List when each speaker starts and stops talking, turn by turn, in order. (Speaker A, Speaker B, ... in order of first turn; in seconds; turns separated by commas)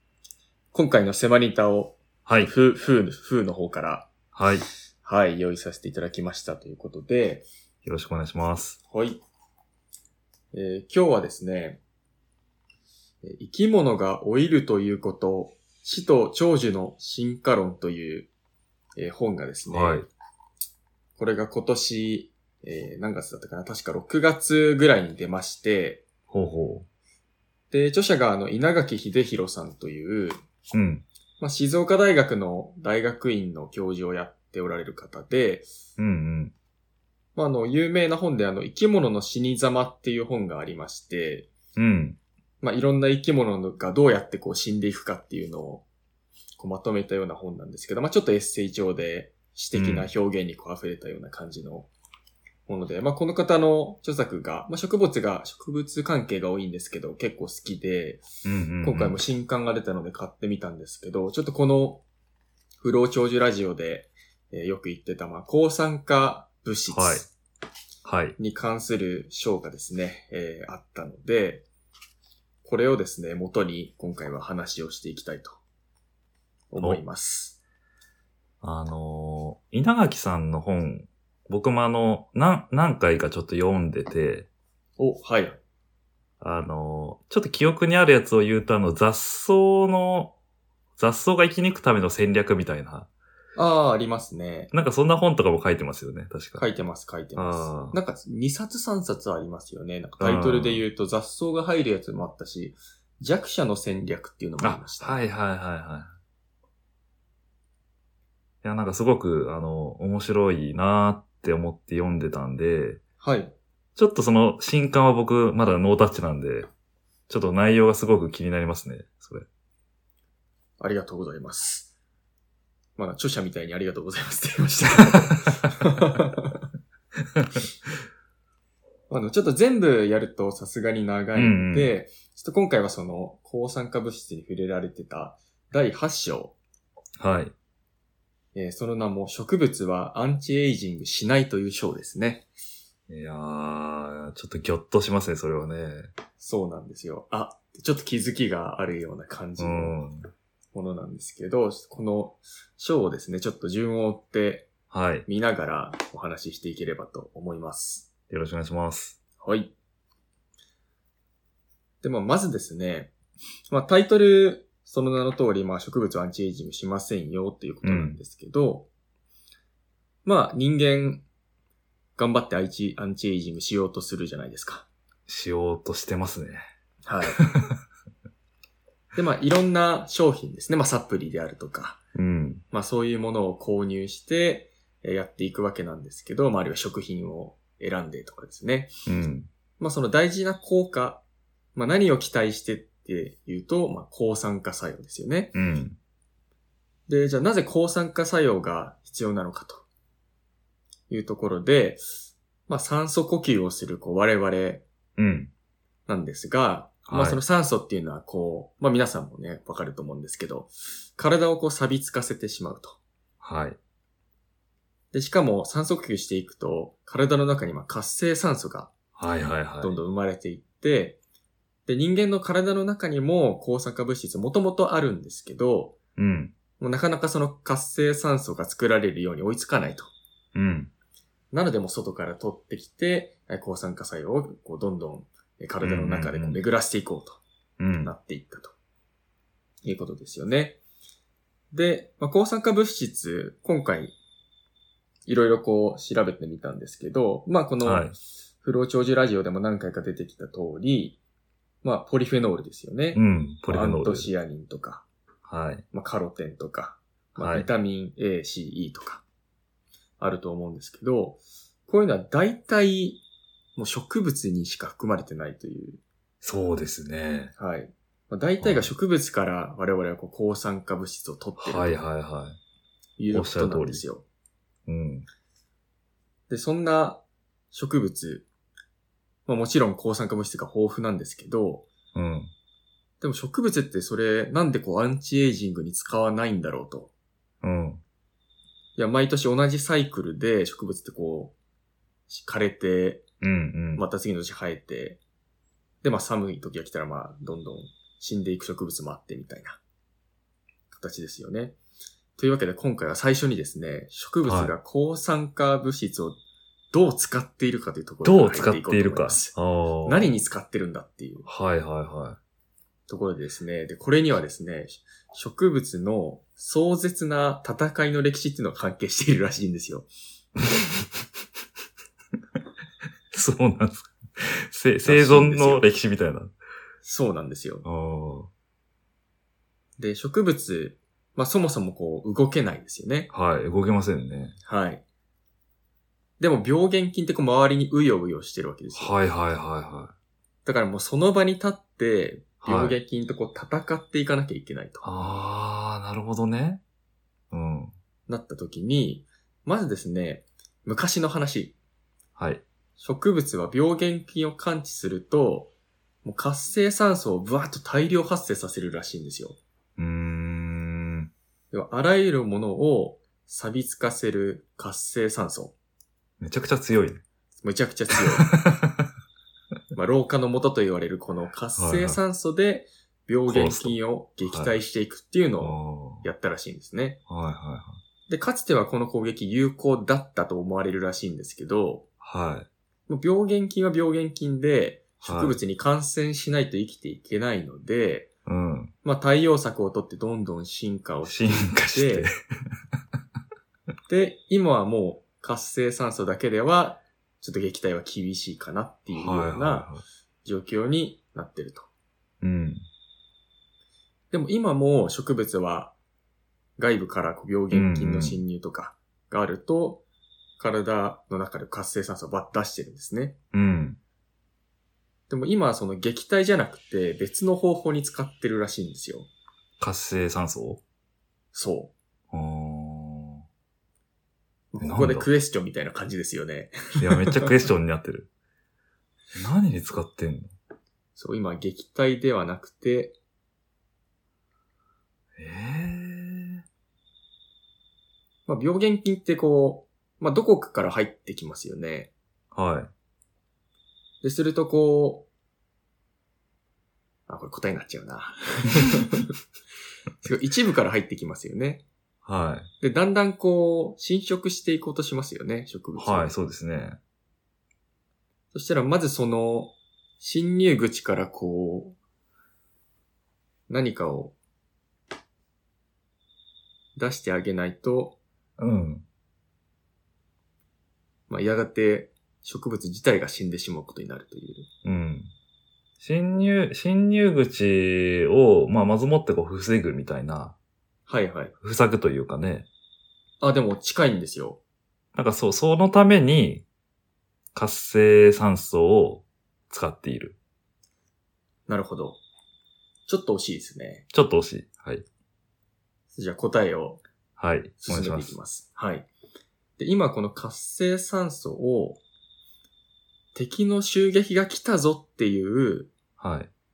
Speaker A: 0.7-4.1, Speaker B: 2.2-2.5, Speaker B: 4.3-4.7, Speaker A: 5.0-7.5, Speaker B: 7.8-8.8, Speaker A: 8.9-9.2, Speaker A: 10.5-11.8, Speaker A: 13.2-18.3, Speaker A: 19.0-20.0, Speaker B: 19.7-20.1, Speaker A: 21.2-26.1, Speaker B: 26.3-26.9, Speaker A: 27.7-30.4, Speaker B: 30.7-31.0, Speaker A: 31.4-35.7, Speaker B: 36.0-36.5, Speaker A: 37.4-41.5, Speaker B: 41.8-42.2, Speaker A: 42.6-45.8, Speaker A: 46.6-51.9, Speaker B: 49.7-50.1, Speaker A: 52.7-58.2, Speaker B: 58.4-59.2, Speaker A: 58.8-62.0, Speaker A: 62.8-67.3, Speaker B: 66.9-67.3, Speaker B: 68.0-68.3, Speaker A: 68.4-71.6, Speaker A: 72.6-75.6, Speaker A: 76.7-77.6, Speaker B: 78.6-84.5, Speaker A: 85.0-85.6, Speaker B: 86.4-90.3, Speaker B: 91.0-93.1, Speaker A: 93.5-94.7, Speaker B: 94.7-96.7, Speaker A: 96.6-105.2, Speaker B: 97.3-98.0, Speaker B: 100.2-100.8, Speaker B: 104.6-106.1, Speaker B: 108.6-113.0, Speaker A: 113.2-113.5, Speaker B: 114.0-116.7, Speaker B: 117.3-119.5, Speaker A: 120.8-121.9, Speaker A: 123.0-126.6, Speaker A: 129.1-136.6, Speaker B: 131.3-131.9, Speaker B: 137.2-137.5, Speaker A: 138.5-142.4, Speaker B: 143.1-146.1, Speaker A: 146.4-150.0, Speaker B: 149.6-150.3, Speaker A: 150.7-154.7, Speaker B: 154.9-155.3, Speaker A: 155.2-158.1, Speaker B: 158.3-159.2, Speaker A: 159.4-159.7, Speaker A: 162.0-163.1, Speaker A: 163.7-168.9, Speaker B: 167.8-168.2, Speaker A: 170.2-171.2, Speaker A: 172.2-174.9, Speaker B: 175.3-176.7, Speaker A: 177.0-177.4, Speaker B: 177.3-177.8, Speaker A: 179.1-182.0, Speaker B: 182.1-182.6, Speaker A: 182.7-188.9, Speaker B: 189.1-189.5, Speaker A: 189.8-191.2, Speaker A: 191.7-195.6, Speaker B: 195.5-196.0, Speaker A: 197.1-199.8, Speaker A: 201.1-204.8, Speaker B: 205.2-205.5, Speaker A: 206.1-213.0, Speaker B: 207.1-207.4, Speaker B: 213.4-213.8, Speaker A: 215.1-218.9, Speaker B: 219.2-220.0, Speaker A: 219.8-221.2, Speaker A: 221.9-226.0, Speaker B: 226.2-226.5, Speaker A: 226.8-230.1, Speaker B: 230.5-230.9, Speaker A: 231.5-237.4, Speaker B: 235.8-236.6, Speaker B: 237.8-238.1, Speaker A: 238.0-238.7, Speaker A: 239.8-240.8, Speaker A: 241.7-244.2, Speaker A: 245.2-248.1, Speaker B: 247.8-248.2, Speaker A: 248.6-251.2, Speaker A: 251.8-255.0, Speaker B: 253.1-254.3, Speaker B: 255.4-255.8, Speaker A: 255.9-259.2, Speaker B: 257.4-257.7, Speaker A: 260.2-263.2, Speaker A: 263.8-266.0, Speaker B: 266.4-267.5, Speaker A: 267.6-272.0, Speaker B: 268.6-268.9, Speaker B: 271.6-272.6, Speaker A: 273.2-274.2, Speaker B: 273.3-274.0, Speaker B: 274.9-275.3, Speaker A: 276.5-278.4, Speaker A: 279.4-281.9, Speaker B: 282.1-282.5, Speaker A: 283.2-287.1, Speaker B: 287.6-288.0, Speaker A: 288.9-291.5, Speaker A: 292.3-293.2, Speaker B: 293.4-294.1, Speaker A: 293.9-295.2, Speaker A: 296.0-299.8, Speaker A: 300.9-301.8, Speaker A: 302.4-306.4, Speaker B: 304.4-304.7, Speaker A: 306.9-311.5, Speaker B: 308.2-310.4, Speaker B: 311.4-312.4, Speaker A: 313.1-320.1, Speaker B: 323.3-326.5, Speaker A: 325.0-325.8, Speaker A: 327.0-327.8, Speaker B: 327.8-328.5, Speaker A: 330.0-333.3, Speaker B: 333.3-334.6, Speaker A: 334.6-335.0, Speaker A: 336.4-339.2, Speaker B: 338.9-340.1, Speaker A: 340.6-345.1, Speaker B: 342.6-343.0, Speaker B: 345.0-346.8, Speaker B: 347.5-347.9, Speaker A: 348.3-351.7, Speaker B: 352.4-352.6, Speaker A: 353.0-355.7, Speaker A: 356.2-359.6, Speaker B: 360.0-361.3, Speaker A: 361.7-365.7, Speaker B: 366.4-367.2, Speaker A: 367.6-368.5, Speaker B: 368.4-369.1, Speaker A: 369.9-377.2, Speaker B: 371.8-372.2, Speaker B: 373.5-374.7, Speaker B: 375.6-376.2, Speaker B: 377.3-378.0, Speaker A: 378.3-382.1, Speaker B: 382.2-382.7, Speaker A: 383.1-388.3, Speaker B: 385.2-385.6, Speaker B: 388.4-388.9, Speaker A: 389.0-392.3, Speaker B: 391.2-392.3, Speaker A: 394.1-399.9, Speaker B: 399.1-400.0, Speaker A: 400.4-401.9, Speaker B: 402.4-402.9, Speaker A: 404.3-405.9, Speaker A: 406.8-410.0, Speaker B: 407.7-408.4, Speaker A: 410.6-413.4, Speaker B: 413.5-414.0, Speaker A: 415.3-419.3, Speaker B: 419.8-420.8, Speaker A: 421.5-421.9, Speaker B: 422.3-423.4, Speaker A: 424.7-427.4, Speaker B: 424.8-425.3, Speaker B: 427.0-428.3, Speaker B: 429.3-430.5, Speaker A: 431.1-433.1, Speaker B: 435.4-436.6, Speaker A: 438.5-442.1, Speaker B: 442.5-442.9, Speaker A: 444.2-445.3, Speaker A: 447.3-449.3, Speaker A: 450.2-451.8, Speaker B: 452.2-452.7, Speaker A: 452.8-456.3, Speaker B: 455.9-457.0, Speaker A: 458.5-462.0, Speaker A: 463.7-464.3, Speaker A: 466.9-468.2, Speaker B: 468.6-469.0, Speaker A: 471.3-474.7, Speaker B: 474.8-475.3, Speaker B: 476.0-480.5, Speaker A: 481.1-481.5, Speaker B: 481.6-482.7, Speaker A: 483.4-484.6, Speaker B: 485.1-486.6, Speaker B: 487.5-490.4, Speaker A: 491.7-492.2, Speaker A: 493.1-494.1, Speaker B: 494.1-495.1, Speaker A: 496.1-497.0, Speaker B: 497.4-498.3, Speaker A: 497.8-499.1, Speaker A: 499.8-502.0, Speaker A: 503.3-505.9, Speaker B: 506.2-506.5